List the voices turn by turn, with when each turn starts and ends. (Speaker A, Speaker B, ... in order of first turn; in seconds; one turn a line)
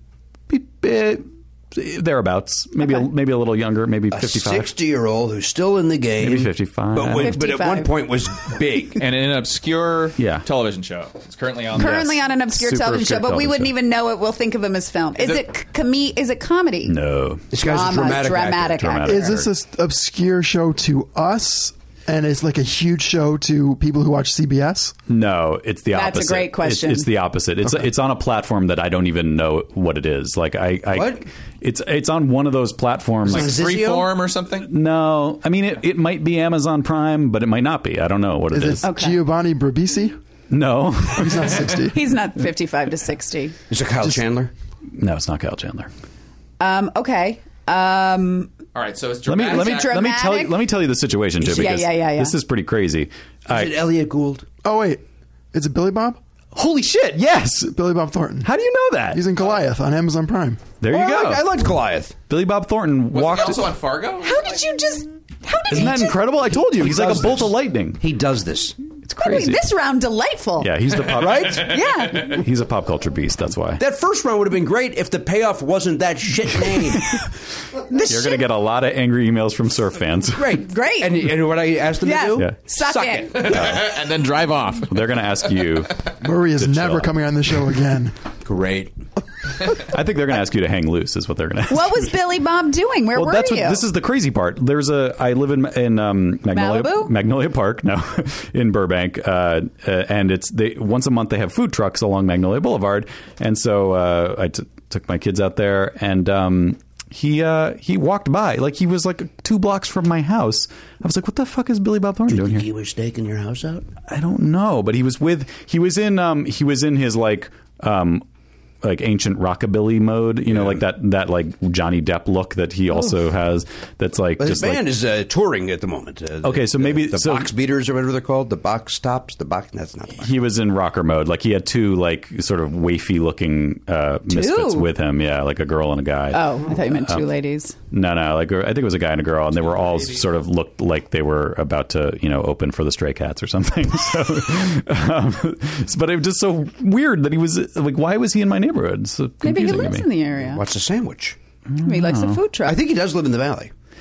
Speaker A: 0.5-4.7
Speaker B: 4.1-9.0
Speaker A: 6.2-7.4
Speaker C: 7.1-7.9
Speaker D: 9.0-12.1
Speaker A: 10.2-10.4
Speaker C: 11.7-16.9
Speaker A: 11.8-13.7
Speaker D: 15.2-15.4
Speaker A: 16.8-17.5
Speaker B: 17.5-19.0
Speaker C: 17.6-19.4
Speaker A: 18.8-19.4
Speaker E: 19.0-24.9
Speaker A: 25.1-33.6
Speaker C: 25.9-27.1
Speaker B: 30.9-31.2
Speaker D: 33.2-34.7
Speaker B: 33.3-34.1
Speaker A: 34.6-38.9
Speaker E: 38.5-40.2
Speaker C: 38.8-39.2
Speaker A: 40.5-41.7
Speaker E: 41.1-42.0
Speaker C: 41.9-43.5
Speaker B: 43.7-44.5
Speaker A: 44.9-45.9
Speaker C: 46.6-48.5
Speaker D: 48.7-50.1
Speaker A: 49.2-53.8
Speaker C: 49.5-50.5
Speaker C: 51.4-52.4
Speaker B: 53.5-54.5
Speaker E: 54.6-55.0
Speaker E: 55.5-56.2
Speaker A: 56.5-57.7
Speaker E: 57.7-58.5
Speaker A: 58.4-59.2
Speaker E: 59.1-60.6
Speaker A: 60.8-61.5
Speaker B: 60.9-62.1
Speaker A: 62.3-63.7
Speaker D: 63.1-64.5
Speaker C: 64.2-66.2
Speaker A: 65.7-68.0
Speaker B: 66.5-68.8
Speaker A: 69.0-69.6
Speaker C: 69.2-70.7
Speaker A: 70.6-73.8
Speaker B: 71.0-71.8
Speaker C: 71.5-72.4
Speaker B: 73.8-77.1
Speaker A: 76.7-77.3
Speaker C: 77.9-78.4
Speaker A: 77.9-80.6
Speaker B: 80.3-83.9
Speaker C: 80.6-81.3
Speaker C: 82.0-83.5
Speaker D: 83.3-85.0
Speaker A: 84.9-86.0
Speaker E: 86.2-88.1
Speaker A: 86.5-87.2
Speaker B: 88.4-88.9
Speaker A: 89.8-92.1
Speaker C: 91.7-93.8
Speaker A: 93.1-112.7
Speaker C: 96.5-97.1
Speaker B: 112.3-113.9
Speaker A: 114.0-118.2
Speaker A: 118.8-124.9
Speaker B: 124.4-130.3
Speaker A: 126.4-127.5
Speaker A: 130.2-137.2
Speaker C: 134.3-134.9
Speaker C: 136.3-137.8
Speaker A: 137.9-150.1
Speaker D: 139.5-140.2
Speaker C: 149.4-150.6
Speaker B: 150.3-151.4
Speaker A: 151.7-152.4
Speaker C: 151.8-152.8
Speaker B: 152.6-153.7